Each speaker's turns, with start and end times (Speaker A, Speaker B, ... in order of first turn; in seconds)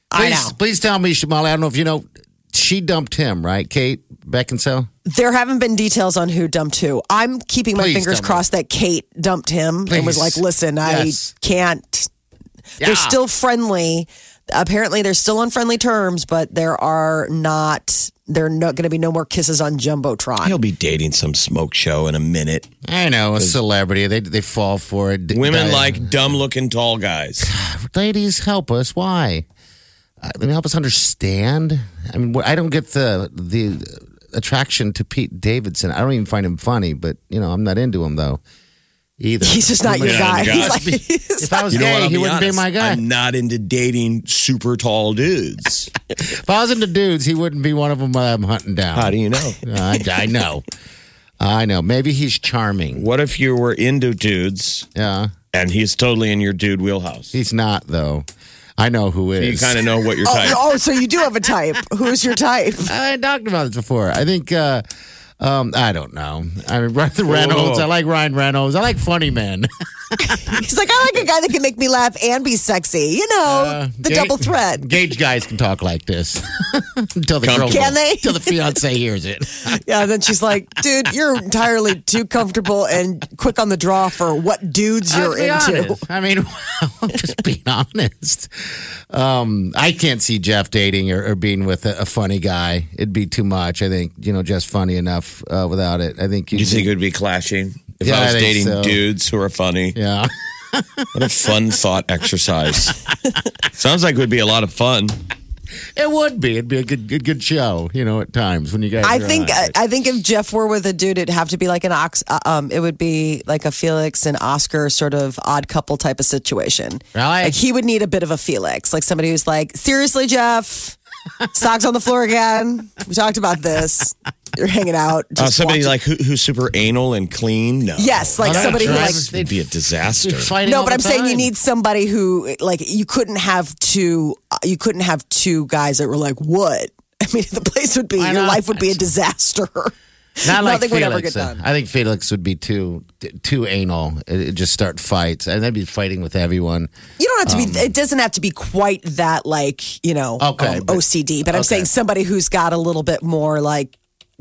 Speaker A: 0.1-0.6, 5.0-12.1, 12.8-20.6, 39.4-41.7, 60.2-63.0, 70.3-74.9, 77.7-78.6, 79.8-86.0, 109.0-121.0, 121.5-126.0, 128.0-129.2, 130.6-141.6, 147.2-153.9
Speaker B: 0.1-4.9, 7.8-8.4, 9.9-11.3, 12.8-13.2, 22.9-26.4, 27.4-29.4, 30.2-38.4, 39.2-43.0, 46.1-50.6, 51.4-53.0, 55.0-55.3, 57.3-58.3, 58.8-59.8, 62.9-64.8, 65.4-70.5, 73.5-79.8, 85.1-88.5, 89.1-96.9, 98.0-99.0, 99.9-101.3, 106.0-109.8, 117.1-117.6, 128.4-129.6, 130.2-131.5, 138.2-139.1, 140.4-146.9, 147.5-147.9, 150.4-151.9
Speaker C: 20.4-22.7, 25.3-27.5, 39.9-40.8, 41.7-45.9, 49.0-49.6, 52.9-54.9, 55.5-57.4, 59.4-60.6, 67.3-67.9, 77.4-77.9, 96.5-100.0, 101.2-103.1, 103.7-105.2, 125.4-130.5